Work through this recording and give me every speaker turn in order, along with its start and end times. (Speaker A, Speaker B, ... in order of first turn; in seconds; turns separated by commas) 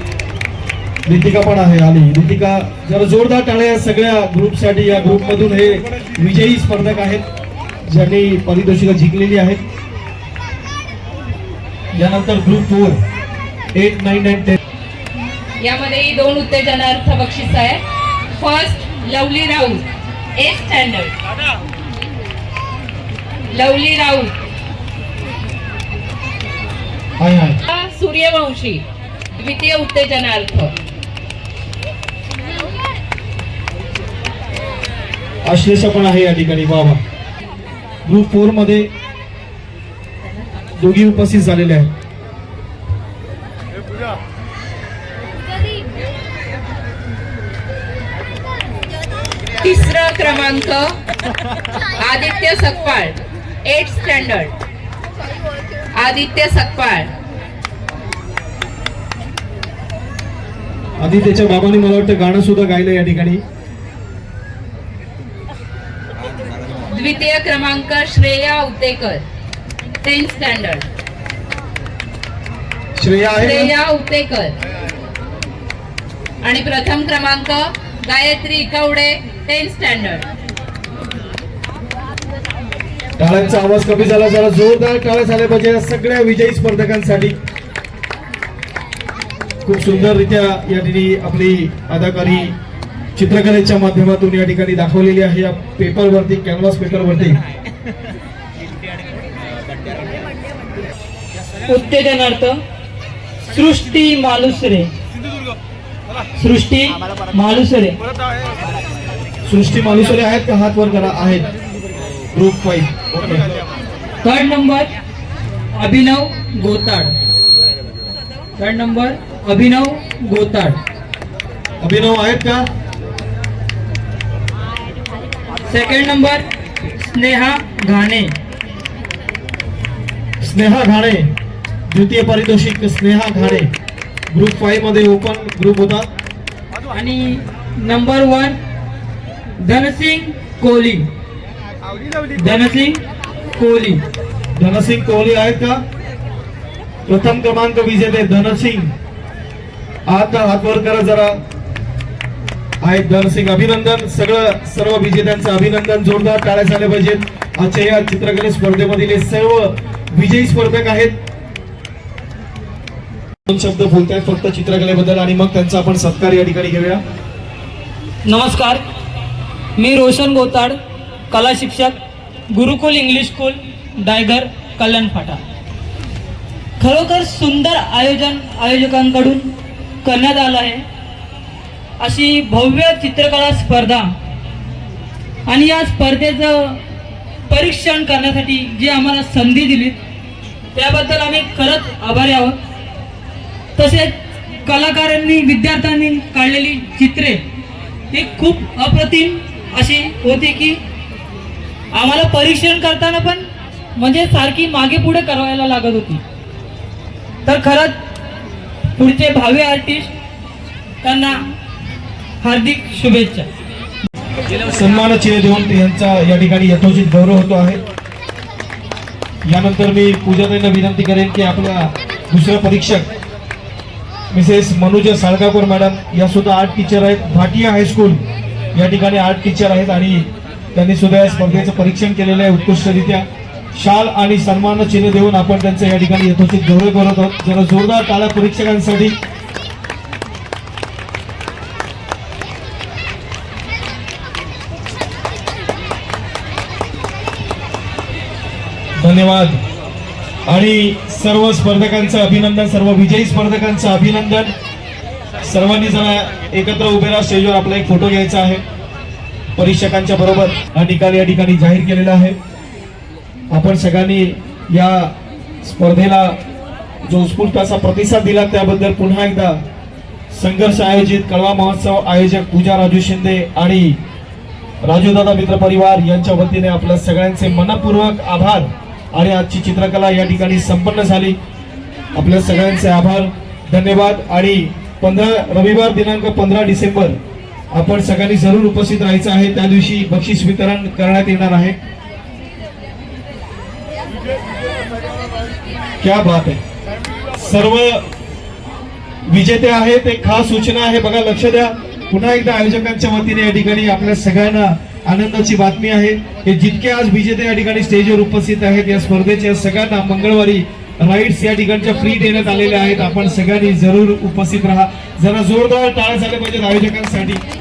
Speaker A: 1.1-7.2, Speaker A: 7.9-9.6, Speaker A: 11.9-13.0, Speaker A: 13.8-14.6, Speaker B: 15.6-17.8, Speaker B: 18.4-19.9, Speaker B: 20.4-21.2, Speaker B: 23.5-24.4, Speaker A: 27.2-27.6, Speaker B: 27.7-30.7, Speaker A: 35.5-37.0, Speaker A: 38.1-38.9, Speaker A: 40.8-41.9, Speaker B: 49.6-51.0, Speaker B: 52.0-54.5, Speaker B: 56.0-57.1, Speaker A: 61.0-63.4, Speaker B: 66.9-69.2, Speaker B: 70.0-70.9, Speaker A: 73.0-73.7, Speaker B: 73.3-74.6, Speaker B: 76.4-80.3, Speaker A: 83.2-87.4, Speaker A: 89.7-92.6, Speaker A: 93.2-97.4, Speaker C: 101.7-102.6, Speaker C: 103.5-104.9, Speaker C: 106.4-108.0, Speaker A: 109.5-111.5, Speaker A: 112.3-113.5, Speaker C: 114.2-114.9, Speaker C: 115.8-117.1, Speaker C: 118.6-120.8, Speaker A: 121.8-122.7, Speaker C: 125.7-126.5, Speaker C: 127.0-128.3, Speaker A: 130.4-131.3, Speaker A: 131.9-133.7, Speaker A: 134.3-136.1, Speaker C: 136.9-138.6, Speaker C: 139.6-141.1, Speaker C: 142.4-143.0, Speaker C: 143.6-144.0, Speaker A: 144.6-145.8, Speaker A: 147.1-148.9, Speaker A: 150.1-151.4, Speaker A: 152.8-161.2, Speaker A: 163.5-167.0, Speaker C: 168.3-168.8, Speaker C: 169.8-170.8, Speaker C: 171.3-172.0, Speaker C: 172.5-175.4, Speaker C: 176.8-179.5, Speaker C: 180.0-180.8, Speaker C: 182.0-184.1, Speaker C: 185.5-186.8, Speaker C: 187.5-190.0, Speaker C: 190.8-192.6, Speaker C: 193.8-197.4, Speaker C: 198.1-200.8, Speaker C: 201.9-206.2, Speaker C: 207.4-208.0, Speaker C: 208.9-210.1, Speaker C: 211.0-211.4, Speaker C: 212.4-213.5, Speaker A: 214.6-217.8, Speaker A: 219.5-223.1, Speaker A: 224.3-239.2, Speaker A: 249.0-249.6, Speaker A: 250.5-254.5, Speaker A: 255.4-258.6, Speaker A: 259.6-262.4, Speaker A: 263.5-266.4, Speaker A: 267.0-269.6, Speaker A: 270.3-274.0, Speaker A: 274.8-281.4, Speaker A: 282.1-287.2, Speaker A: 287.7-291.8, Speaker A: 296.0-296.6, Speaker A: 297.4-298.1, Speaker A: 299.3-317.4